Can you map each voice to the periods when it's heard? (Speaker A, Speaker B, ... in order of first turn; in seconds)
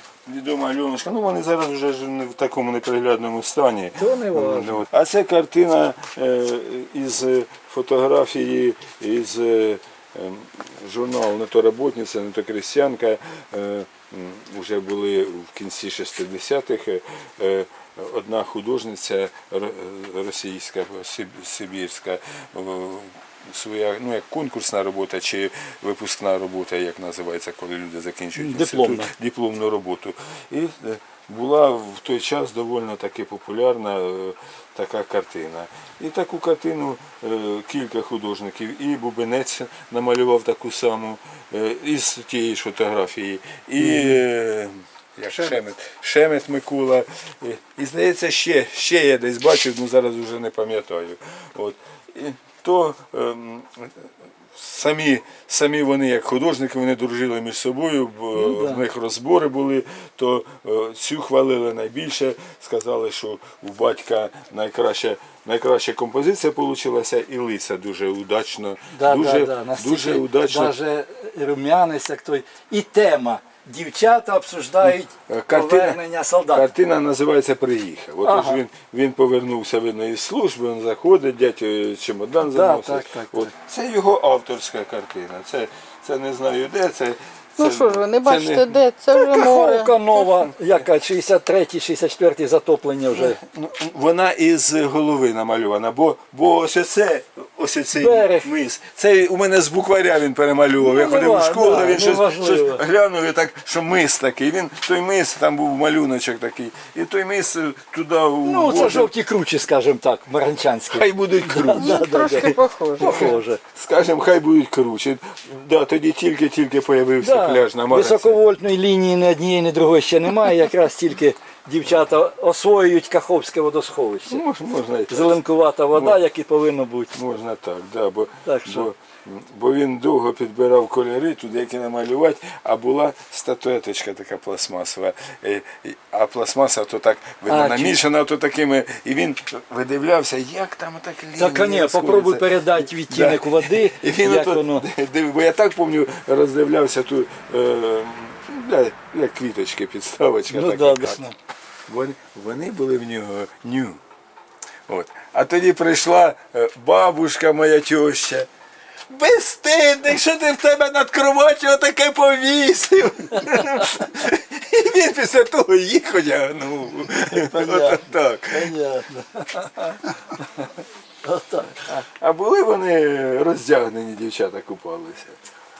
Speaker A: 0.3-70.8, 74.8-88.8, 90.2-90.5, 93.1-109.1, 110.9-118.4, 124.3-125.4, 125.9-126.2, 127.1-151.2, 151.9-154.0, 154.9-158.5, 159.1-168.7, 171.9-175.4
Speaker B: 4.0-4.8, 28.4-29.1, 43.8-44.2, 58.4-58.8, 68.9-76.7, 78.2-78.6, 82.5-83.5, 89.1-93.4, 97.9-98.5, 100.8-102.8, 108.5-113.6, 117.2-124.4, 125.1-127.1, 128.4-128.9, 137.5-138.0, 141.4-144.9, 150.5-151.3, 167.3-170.7, 171.2-172.0
Speaker C: 87.6-89.9, 111.7-113.4